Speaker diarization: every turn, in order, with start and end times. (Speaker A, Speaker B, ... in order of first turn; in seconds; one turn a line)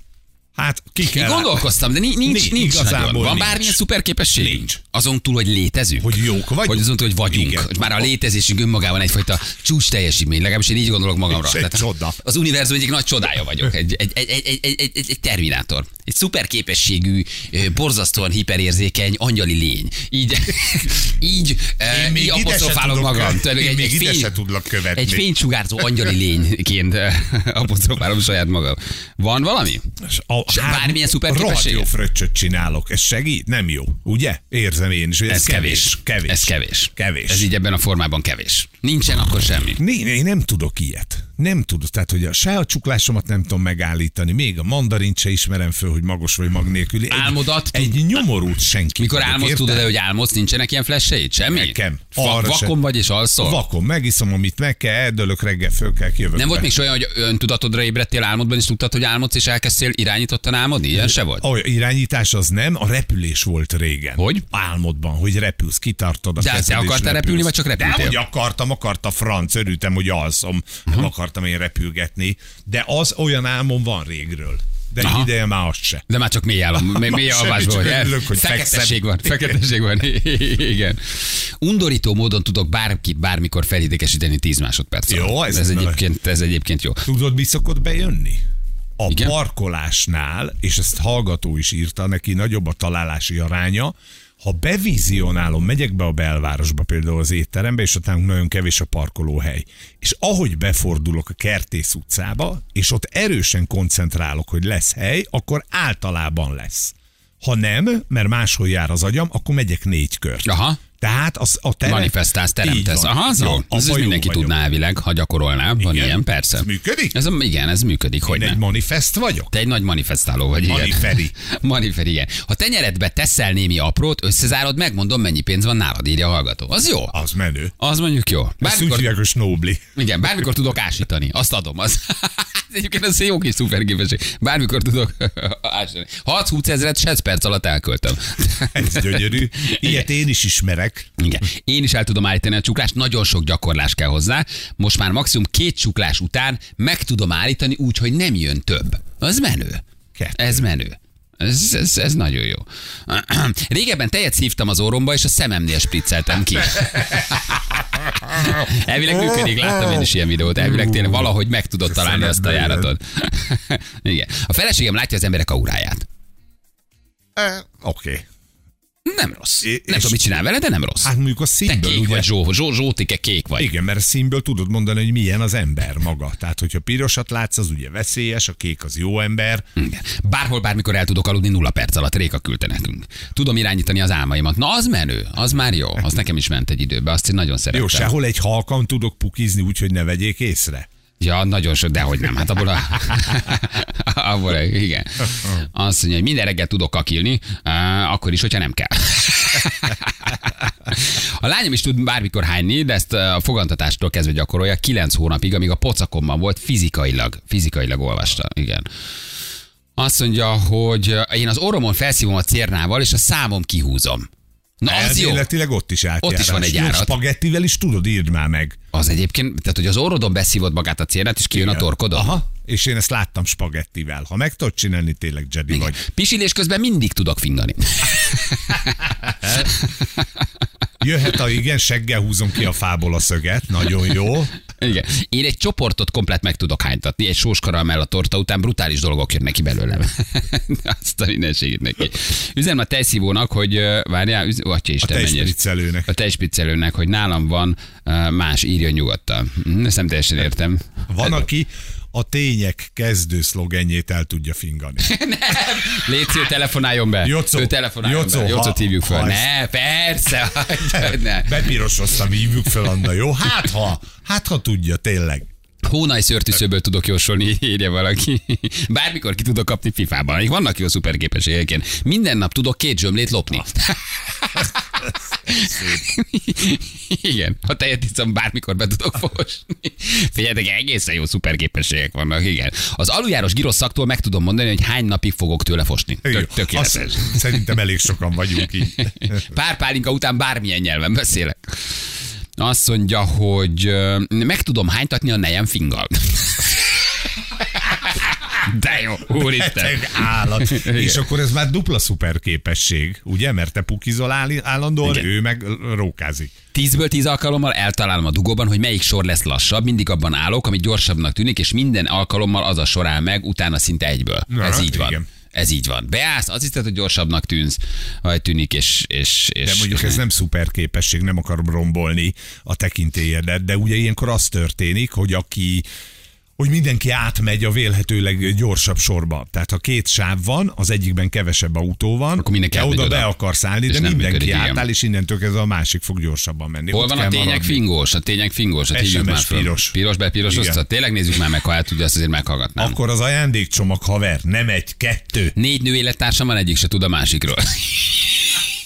Speaker A: 0.6-3.8
Speaker B: 1.0-24.3
Speaker A: 4.3-4.8
Speaker A: 6.0-8.1
Speaker A: 11.3-12.2
Speaker A: 21.9-25.3
Speaker B: 24.9-29.9
Speaker A: 30.0-37.5
Speaker B: 30.5-31.9
Speaker B: 35.3-39.8
Speaker A: 39.8-49.9
Speaker B: 47.1-48.3
Speaker B: 49.0-53.6
Speaker A: 51.5-52.8
Speaker A: 53.4-56.7
Speaker B: 56.4-61.5
Speaker A: 61.4-76.0
Speaker B: 64.2-64.5
Speaker B: 66.4-68.2
Speaker B: 75.0-75.3
Speaker B: 76.1-87.1
Speaker A: 76.8-79.6
Speaker A: 85.1-86.0
Speaker A: 87.1-88.4
Speaker A: 89.0-110.5
Speaker B: 89.1-89.4
Speaker B: 110.5-110.8
Speaker A: 111.0-114.6
Speaker B: 111.8-118.6
Speaker A: 115.8-117.2
Speaker A: 118.2-119.5
Speaker B: 119.5-127.2
Speaker A: 120.7-121.3
Speaker A: 127.1-127.7
Speaker B: 127.8-129.1
Speaker A: 128.6-129.8
Speaker B: 130.0-140.1
Speaker A: 138.7-141.1
Speaker B: 141.2-149.8
Speaker A: 150.2-150.7
Speaker B: 150.4-166.1
Speaker A: 161.8-162.9
Speaker A: 167.4-168.2
Speaker B: 169.1-171.1
Speaker A: 169.6-170.2
Speaker A: 171.0-172.3
Speaker B: 171.7-173.7
Speaker A: 173.6-179.7
Speaker B: 179.8-188.2
Speaker A: 187.7-190.9
Speaker B: 191.2-208.9
Speaker B: 210.0-214.3
Speaker B: 214.8-215.5
Speaker A: 214.8-218.8
Speaker B: 216.2-217.2
Speaker B: 218.9-222.3
Speaker A: 221.5-226.0
Speaker B: 225.7-229.1
Speaker A: 229.3-229.7
Speaker B: 229.8-230.2
Speaker A: 231.0-234.5
Speaker B: 234.3-251.4
Speaker A: 245.0-246.1
Speaker A: 251.1-255.1
Speaker B: 255.0-263.1
Speaker A: 257.2-259.5
Speaker A: 260.9-265.5
Speaker B: 265.8-287.8
Speaker A: 286.2-289.1
Speaker B: 288.6-291.7
Speaker B: 292.6-297.0
Speaker B: 297.8-301.3
Speaker A: 299.3-306.5
Speaker B: 305.0-305.3
Speaker B: 306.7-320.2
Speaker A: 314.5-315.3
Speaker A: 319.6-325.9
Speaker A: 326.6-337.8
Speaker B: 332.4-333.3
Speaker B: 333.9-334.8
Speaker B: 336.9-343.0
Speaker A: 338.9-339.9
Speaker A: 340.5-340.8
Speaker A: 342.8-345.6
Speaker B: 345.6-348.6